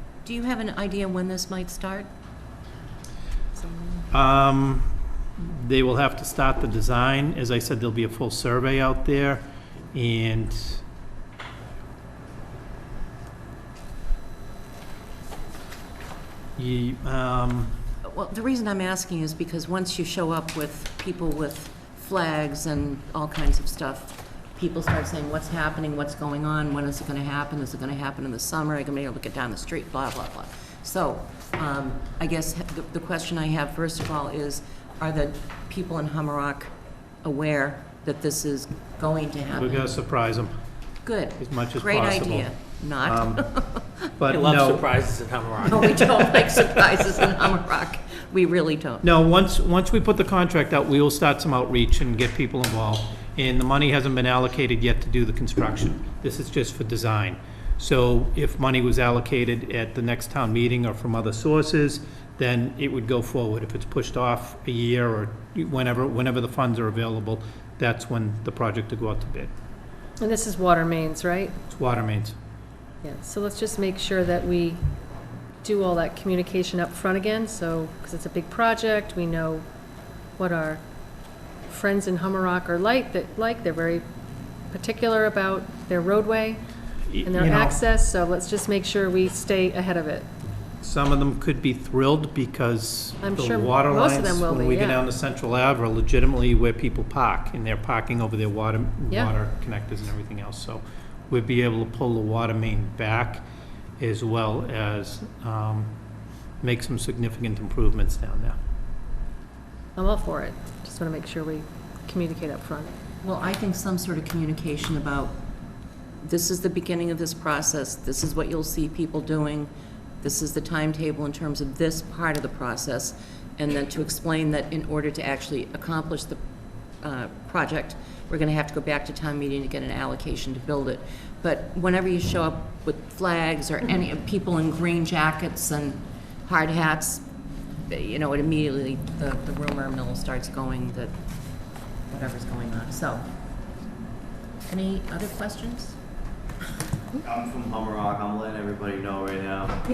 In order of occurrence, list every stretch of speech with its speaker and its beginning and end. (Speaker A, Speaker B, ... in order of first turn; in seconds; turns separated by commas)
Speaker A: 0.2-2.1, Speaker A: 3.5-4.0, Speaker B: 4.1-10.8, Speaker B: 16.6-17.8, Speaker A: 18.0-36.7, Speaker A: 37.2-40.0, Speaker B: 39.5-40.5, Speaker A: 41.0-44.0, Speaker B: 41.4-42.5, Speaker B: 43.0-43.4, Speaker B: 44.2-44.9, Speaker C: 44.3-46.5, Speaker A: 45.6-49.0, Speaker B: 49.0-69.5, Speaker D: 70.2-71.5, Speaker B: 71.7-72.3, Speaker D: 73.0-74.8, Speaker D: 75.6-79.6, Speaker D: 80.4-80.8, Speaker D: 81.7-84.0, Speaker D: 84.7-86.6, Speaker B: 87.1-87.8, Speaker D: 87.2-90.3, Speaker B: 90.8-103.4, Speaker D: 93.2-95.0, Speaker B: 104.0-105.9, Speaker B: 106.6-108.6, Speaker D: 110.0-112.9, Speaker A: 113.2-115.4, Speaker A: 116.2-119.7, Speaker A: 120.2-126.4, Speaker A: 127.0-137.2, Speaker A: 137.9-141.2, Speaker A: 142.1-143.3, Speaker A: 144.7-145.9, Speaker E: 147.3-149.8